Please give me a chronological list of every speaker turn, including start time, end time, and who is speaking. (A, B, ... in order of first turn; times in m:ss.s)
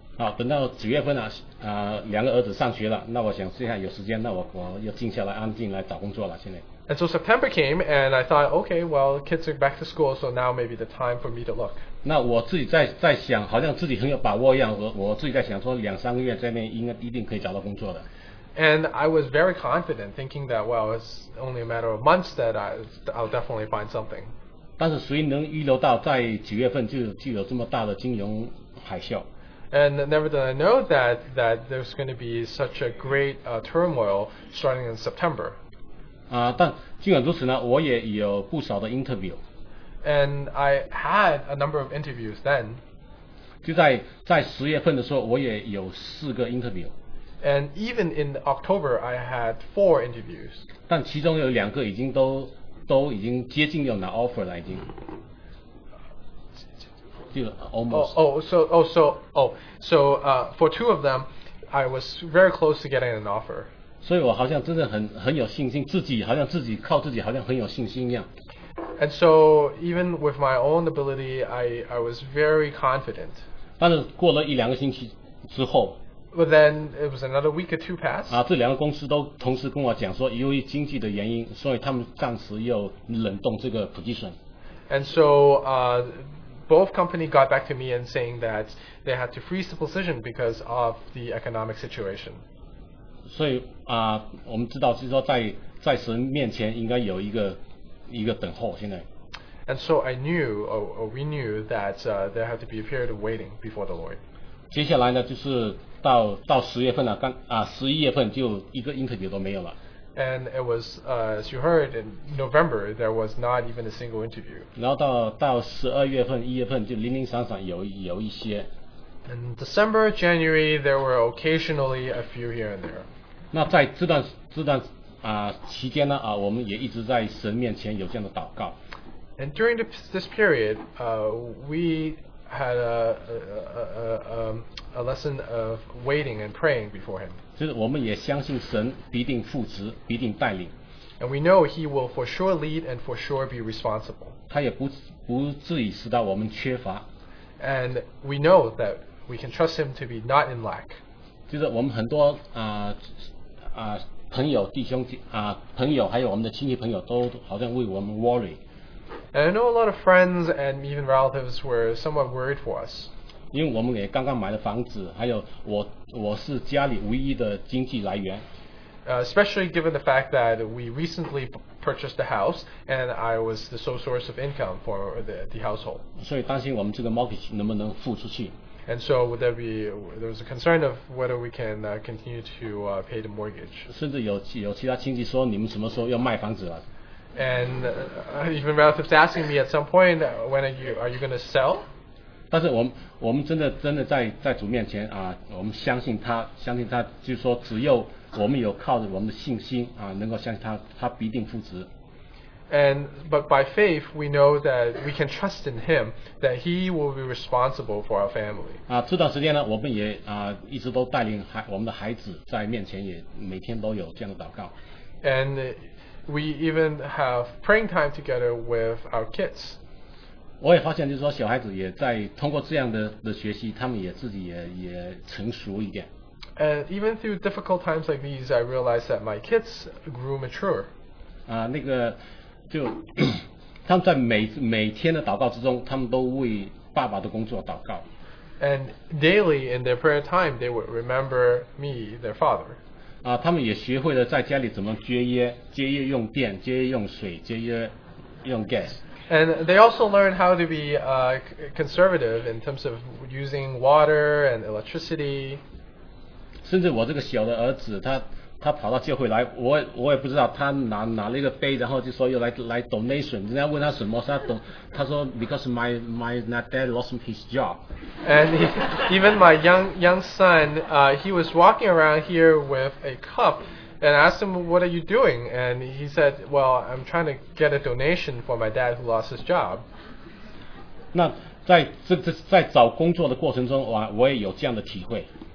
0:00.2-0:06.6 A
0:06.9-0:11.8 B
0:12.0-0:18.1 A
0:18.6-0:24.3 B
0:24.8-0:29.3 A
0:29.7-0:35.6 B
0:36.3-0:39.4 A
0:40.0-0:42.8 B
0:43.6-0:46.9 A
0:47.4-0:50.6 B
0:50.9-0:54.9 A
0:57.3-0:58.2 A
0:57.9-1:03.7 B
1:04.0-1:08.3 A
1:09.0-1:13.4 B
1:13.8-1:16.0 A
1:16.3-1:18.4 B
1:18.3-1:24.4 A
1:24.9-1:32.4 B
1:33.3-1:39.1 A
1:39.7-1:44.2 B
1:44.7-1:49.8 A
1:50.2-1:54.7 B
1:54.8-1:58.7 A
1:59.3-2:03.1 B
2:03.5-2:08.8 A
2:09.4-2:17.4 B
2:17.6-2:20.7 A
2:21.2-2:24.4 B
2:24.5-2:27.1 A
2:27.6-2:31.0 B
2:31.5-2:33.1 A
2:33.7-2:38.6 A
2:39.3-2:43.1 B
2:43.5-2:48.5 A
2:49.0-2:56.0 B
2:56.2-2:58.6 A
2:58.9-3:03.9 B
3:03.9-3:06.8 A
3:07.4-3:11.8 B
3:12.5-3:21.9 A
3:22.7-3:28.8 B
3:28.9-3:34.7 A
3:35.2-3:39.8 B
3:40.6-3:46.1 A
3:46.6-3:50.9 B
3:51.5-3:52.2 A
3:52.7-3:58.1 A
3:58.6-4:02.8 B
4:03.2-4:09.0 A
4:09.3-4:15.6 B
4:16.6-4:27.8 A
4:28.2-4:39.8 B
4:41.1-4:45.3 A